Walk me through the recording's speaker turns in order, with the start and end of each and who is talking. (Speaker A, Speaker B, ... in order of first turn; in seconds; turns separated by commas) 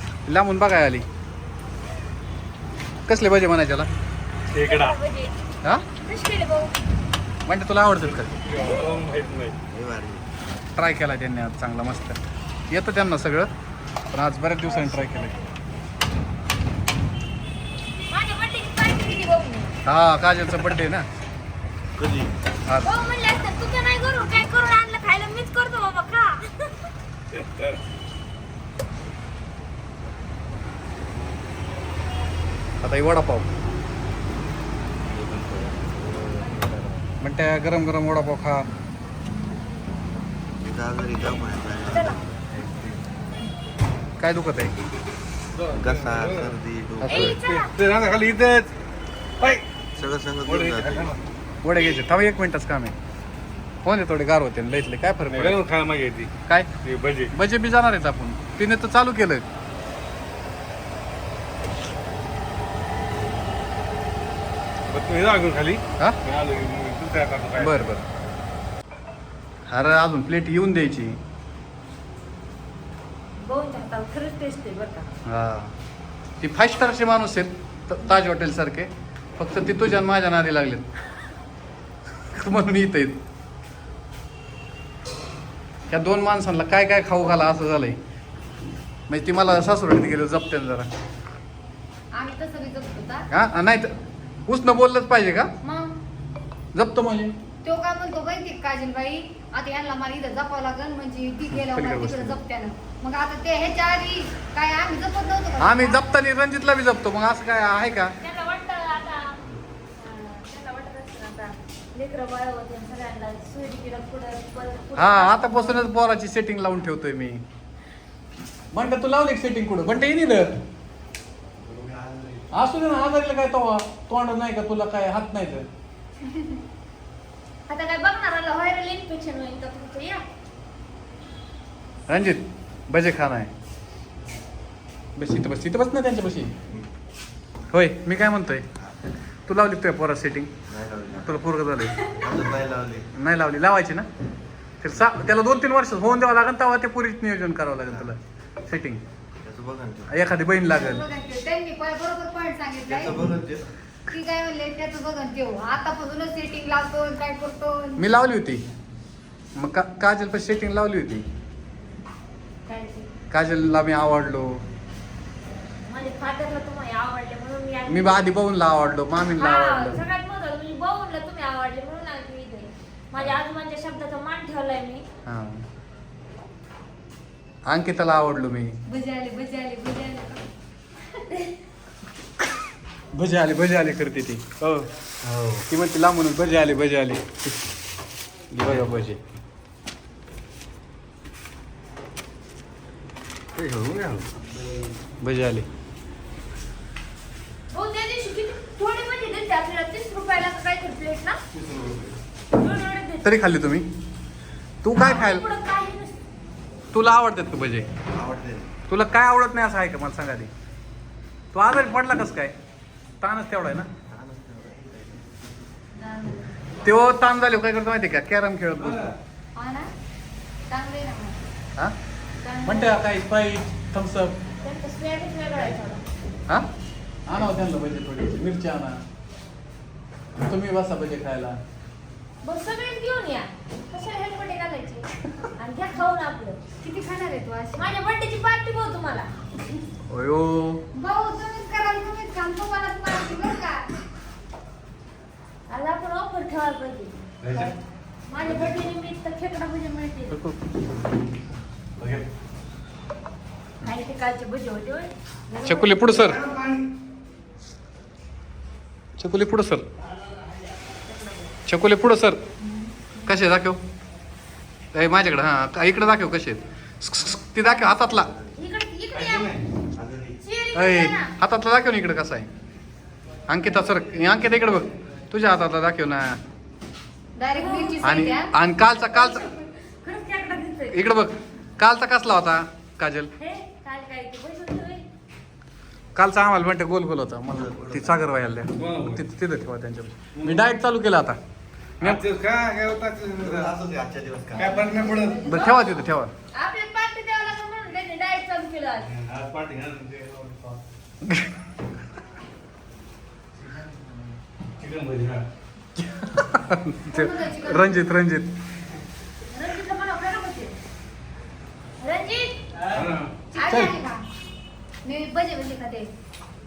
Speaker A: 0.2-1.1, Speaker A: 3.1-3.9, Speaker B: 4.5-5.0, Speaker C: 4.6-5.3, Speaker C: 5.9-6.7, Speaker A: 7.5-8.3, Speaker B: 8.4-9.6, Speaker D: 9.7-10.2, Speaker A: 10.8-12.2, Speaker A: 12.7-13.5, Speaker A: 14.1-15.3, Speaker C: 14.7-15.3, Speaker C: 18.1-19.7, Speaker A: 19.8-21.0, Speaker D: 22.0-22.3, Speaker C: 22.8-26.9, Speaker A: 32.8-33.5, Speaker D: 35.2-36.8, Speaker A: 37.2-38.6, Speaker D: 40.6-42.6, Speaker C: 41.9-42.2, Speaker A: 44.2-44.7, Speaker B: 45.6-46.5, Speaker D: 45.7-47.4, Speaker A: 47.0-47.4, Speaker C: 47.1-47.7, Speaker B: 47.4-48.8, Speaker B: 49.4-49.6, Speaker D: 49.9-51.1, Speaker B: 50.5-51.2, Speaker A: 51.6-52.9, Speaker A: 53.8-55.6, Speaker B: 55.3-56.3, Speaker B: 56.8-57.3, Speaker A: 57.3-59.4, Speaker B: 64.9-67.9, Speaker A: 67.6-68.0, Speaker A: 69.7-71.2, Speaker C: 73.4-75.2, Speaker A: 75.2-75.7, Speaker A: 76.4-80.8, Speaker A: 82.3-83.2, Speaker A: 85.9-88.0, Speaker A: 89.1-90.9, Speaker E: 92.1-93.3, Speaker A: 93.3-93.9, Speaker A: 94.5-95.5, Speaker E: 95.6-95.9, Speaker A: 96.7-97.3, Speaker E: 97.6-106.0, Speaker A: 101.5-102.4, Speaker A: 105.6-108.1, Speaker C: 108.2-109.4, Speaker C: 110.0-115.9, Speaker A: 115.0-117.4, Speaker A: 118.7-120.5, Speaker D: 121.6-122.5, Speaker A: 122.5-125.7, Speaker C: 127.7-130.2, Speaker A: 132.1-133.5, Speaker A: 135.2-136.5, Speaker A: 137.7-138.6, Speaker A: 139.5-140.5, Speaker D: 140.7-141.3, Speaker A: 141.1-142.0, Speaker D: 142.1-143.1, Speaker A: 143.2-144.1, Speaker A: 144.8-149.0, Speaker D: 149.4-150.1, Speaker A: 150.1-151.1, Speaker E: 150.6-153.2, Speaker D: 152.9-153.7, Speaker E: 154.1-158.0, Speaker A: 158.0-158.6, Speaker A: 159.6-161.2, Speaker C: 162.7-163.1, Speaker A: 163.3-164.6, Speaker C: 165.9-168.3, Speaker A: 167.9-170.0, Speaker C: 169.3-175.1, Speaker A: 175.2-175.6, Speaker A: 177.7-178.8, Speaker E: 178.9-180.4, Speaker A: 183.1-184.8, Speaker A: 185.7-187.5, Speaker A: 188.5-189.2, Speaker B: 193.6-194.3, Speaker A: 195.2-195.7, Speaker C: 197.7-201.4, Speaker B: 201.5-202.1, Speaker C: 202.5-203.3, Speaker A: 203.2-203.9, Speaker A: 204.8-205.4, Speaker C: 204.9-206.2, Speaker A: 206.9-207.9, Speaker D: 208.1-208.7, Speaker A: 208.9-210.5, Speaker A: 211.5-212.5, Speaker A: 213.2-213.9, Speaker D: 214.1-215.4, Speaker E: 216.0-216.3, Speaker A: 216.8-219.1, Speaker E: 219.5-219.9, Speaker E: 220.7-221.4, Speaker E: 222.4-222.9, Speaker A: 222.6-224.3, Speaker C: 224.6-226.0, Speaker A: 227.3-229.0, Speaker A: 230.4-231.6, Speaker C: 232.4-236.6, Speaker E: 236.8-237.8, Speaker C: 237.7-239.3, Speaker A: 240.1-240.8, Speaker E: 240.9-243.9, Speaker C: 245.7-247.1, Speaker B: 247.4-247.7, Speaker C: 248.3-250.4, Speaker B: 248.4-248.7, Speaker A: 250.3-250.6, Speaker B: 252.0-252.2, Speaker C: 253.8-256.4, Speaker A: 255.6-256.4, Speaker B: 256.4-256.8, Speaker A: 259.2-259.9, Speaker C: 261.0-261.5, Speaker A: 261.7-262.4, Speaker A: 263.2-263.8, Speaker A: 264.9-268.3, Speaker C: 267.6-269.6, Speaker B: 269.1-269.6, Speaker D: 270.0-270.4, Speaker C: 270.4-271.3, Speaker A: 270.7-272.5, Speaker A: 273.5-276.4, Speaker E: 277.4-278.5, Speaker C: 277.5-278.3, Speaker A: 278.0-279.4, Speaker C: 278.8-281.1, Speaker A: 280.9-283.3, Speaker C: 283.4-285.0, Speaker A: 286.1-291.4, Speaker D: 287.6-288.2, Speaker B: 288.8-289.2, Speaker B: 290.4-290.6, Speaker B: 292.0-293.7, Speaker D: 293.4-294.7, Speaker B: 294.5-295.4, Speaker C: 295.3-296.0, Speaker A: 295.4-296.3, Speaker C: 296.5-299.1, Speaker B: 299.0-300.8, Speaker B: 304.8-305.4, Speaker A: 305.9-308.5, Speaker E: 307.1-308.1, Speaker C: 309.5-310.7, Speaker C: 312.0-312.6, Speaker B: 312.9-313.3, Speaker E: 313.5-314.2, Speaker A: 313.6-313.9, Speaker E: 315.0-316.1